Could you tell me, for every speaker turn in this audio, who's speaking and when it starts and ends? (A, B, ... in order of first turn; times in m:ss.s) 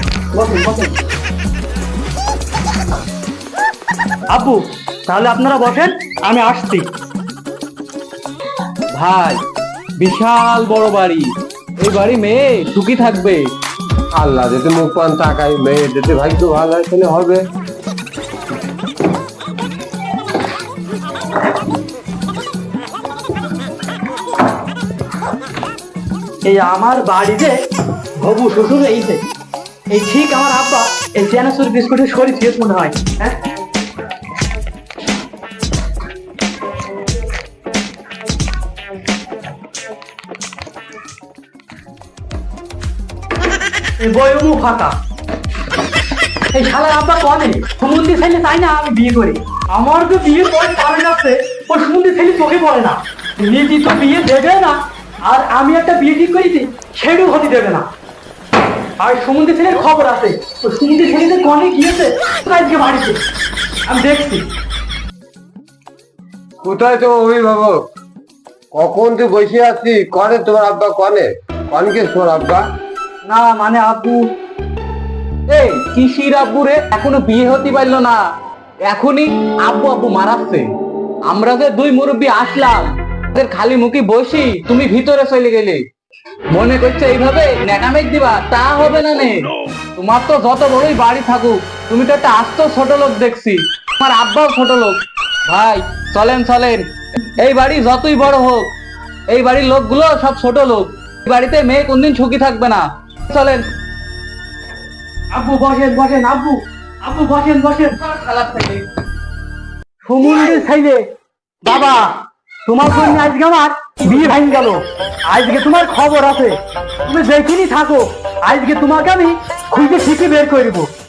0:00.3-0:01.0 A
0:04.3-0:06.9 A
0:08.9-0:09.4 B
0:10.0-0:13.5 B
0:14.2-0:17.4 C
0:26.5-0:27.6 A
0:28.2-0:29.2 A
0:29.9-0:33.4 A
0:44.0-0:45.0 A
0:46.5-0:57.9 A
0:59.0-1:03.2 A
1:03.9-1:04.4 A
1:06.6-1:07.8 C
1:08.7-1:12.6 C
1:13.2-1:14.3 A
1:15.5-1:18.2 B
1:18.8-1:20.7 B
1:21.2-1:25.8 B
1:26.5-1:38.7 B
1:39.3-1:43.7 B
1:45.3-1:48.0 A
1:48.0-1:48.9 B
1:50.0-1:51.0 A
1:51.6-1:52.1 A
1:52.6-2:00.9 A